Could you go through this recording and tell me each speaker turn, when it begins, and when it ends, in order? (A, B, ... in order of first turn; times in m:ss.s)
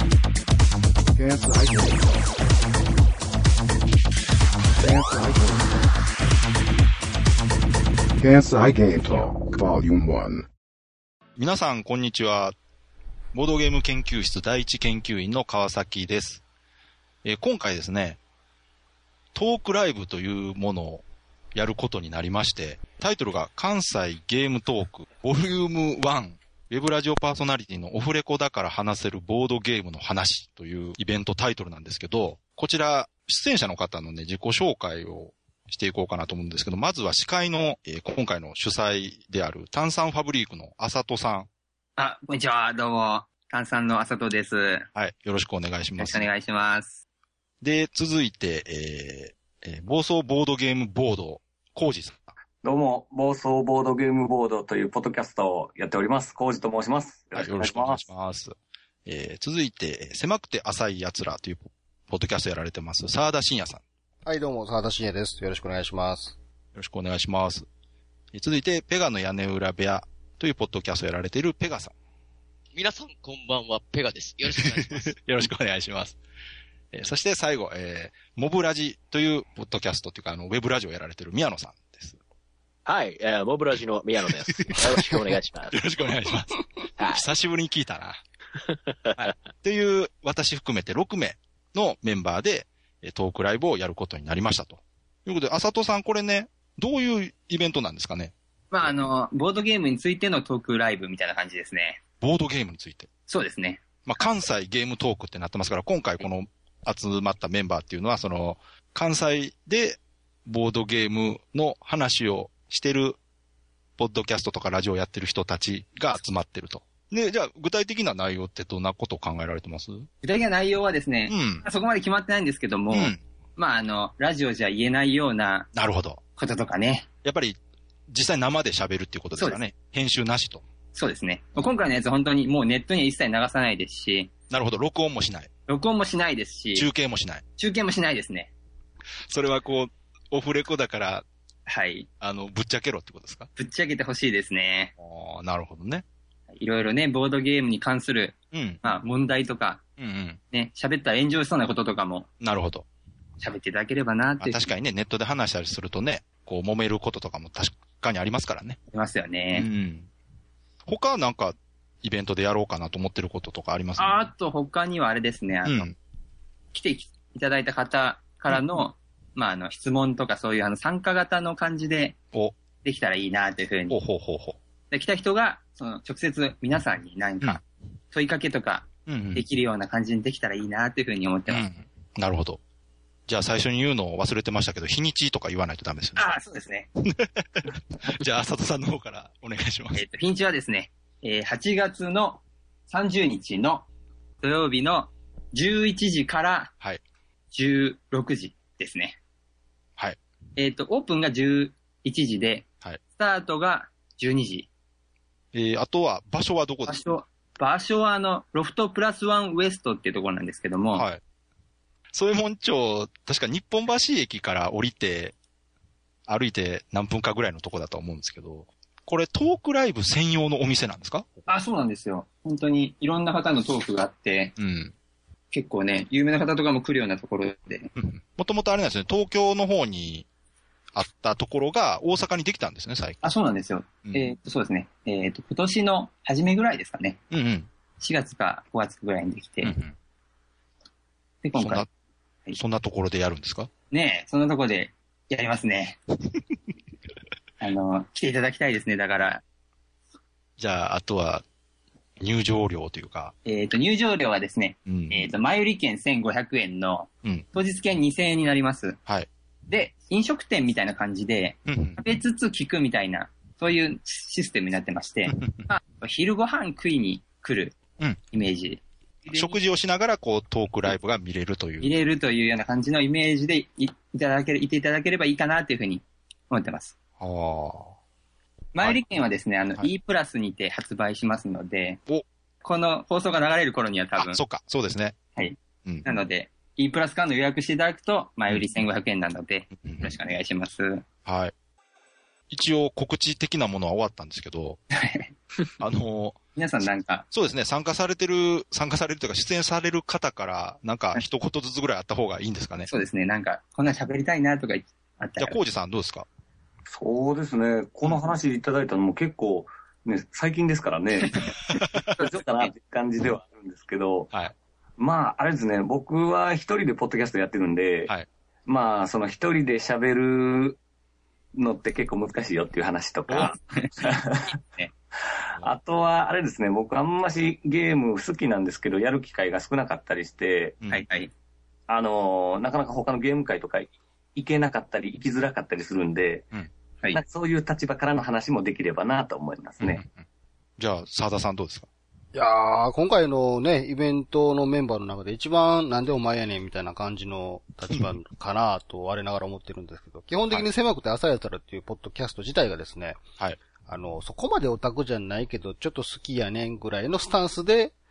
0:01.1-0:02.2 A
0:04.8-0:05.7 A
0:08.2-0:10.5 A
0:11.4-0:12.5 B
0:13.3-0:16.4 B
0:17.2-0:18.2 B
0:19.3-0:21.0 B
0:21.5-0:41.5 B
0:42.0-0:44.9 C
0:44.9-0:46.3 B
0:46.0-0:47.0 C
0:47.6-0:52.3 B
0:52.6-0:58.1 D
0:57.3-0:58.5 B
0:59.0-1:03.8 B
1:04.2-1:06.4 E
1:06.7-1:07.6 B
1:08.3-1:11.9 B
1:12.7-1:15.1 F
1:14.7-1:16.2 B
1:16.9-1:22.2 B
1:22.8-1:25.8 G
1:24.4-1:28.2 B
1:27.0-1:27.3 G
1:28.6-1:29.3 G
1:29.2-1:39.0 B
1:38.7-1:42.0 C
1:42.2-1:43.1 B
1:43.3-1:43.8 C
1:44.0-1:53.2 B
1:54.0-2:00.1 B
2:00.2-2:05.7 C
2:01.3-2:01.6 B
2:02.9-2:03.2 B
2:05.7-2:06.2 B
2:06.4-2:07.0 C
2:07.2-2:07.6 B
2:08.1-2:10.6 B
2:09.4-2:09.6 C
2:10.9-2:14.3 C
2:14.5-2:15.5 B
2:15.7-2:16.9 C
2:16.7-2:17.4 B
2:17.6-2:18.5 C
2:19.3-2:21.2 B
2:21.7-2:22.1 C
2:22.2-2:23.5 B
2:23.6-2:24.9 C
2:25.0-2:26.0 B
2:26.5-2:29.8 C
2:28.5-2:28.8 B
2:30.0-2:30.4 B
2:30.5-2:32.3 C
2:32.4-2:32.8 B
2:33.4-2:34.7 C
2:34.4-2:38.8 B
2:38.9-2:39.7 C
2:39.5-2:40.1 B
2:40.8-2:44.2 B
2:44.0-2:45.9 C
2:45.6-2:45.9 B
2:46.7-2:52.1 C
2:52.8-2:54.0 C
2:53.9-2:54.6 B
2:54.9-3:01.6 C
2:59.1-2:59.4 B
3:01.5-3:02.6 B
3:03.3-3:06.4 B
3:06.2-3:06.9 C
3:07.0-3:10.0 B
3:09.9-3:13.8 C
3:14.4-3:16.7 C
3:17.5-3:19.2 C
3:20.6-3:24.7 C
3:25.5-3:27.0 B
3:26.9-3:31.1 C
3:30.9-3:31.2 B
3:32.1-3:35.3 B
3:36.3-3:41.4 B
3:41.5-3:44.5 C
3:44.6-3:44.9 B
3:45.5-3:47.9 C
3:48.0-3:50.2 B
3:50.9-3:53.3 B
3:53.2-3:57.2 C
3:54.0-3:54.3 B
3:57.3-3:57.7 B
3:58.0-3:59.7 C
3:59.6-3:59.9 B
4:01.4-4:01.8 C
4:01.5-4:01.9 B
4:02.6-4:03.7 B
4:03.9-4:06.0 C
4:07.6-4:09.4 C
4:10.6-4:11.4 B
4:12.2-4:13.3 B
4:13.4-4:19.0 C
4:14.9-4:15.3 B
4:19.7-4:27.8 C
4:21.7-4:22.0 B
4:25.3-4:25.7 B
4:28.3-4:29.6 C
4:29.3-4:31.9 B
4:31.8-4:36.9 C
4:37.2-4:37.9 B
4:38.7-4:42.0 C
4:38.8-4:39.1 B
4:42.6-4:44.4 C
4:44.2-4:45.2 B
4:45.4-4:51.0 C
4:49.8-4:50.2 B
4:51.2-4:51.5 B
4:52.5-4:54.8 B
4:55.0-4:55.3 C
4:55.8-4:56.4 B
4:56.6-4:57.2 C
4:57.3-5:02.9 B
5:02.9-5:05.6 C
5:05.4-5:06.2 B
5:06.9-5:11.4 D
5:12.2-5:14.3 D
5:15.0-5:18.1 D
5:18.7-5:20.8 D
5:21.5-5:24.4 D
5:23.4-5:24.9 C
5:25.5-5:30.8 D
5:30.9-5:31.3 C
5:31.9-5:36.5 D
5:37.1-5:40.0 D
5:39.8-5:40.2 B
5:40.8-5:41.9 B
5:42.3-5:53.2 E
5:53.8-5:57.9 E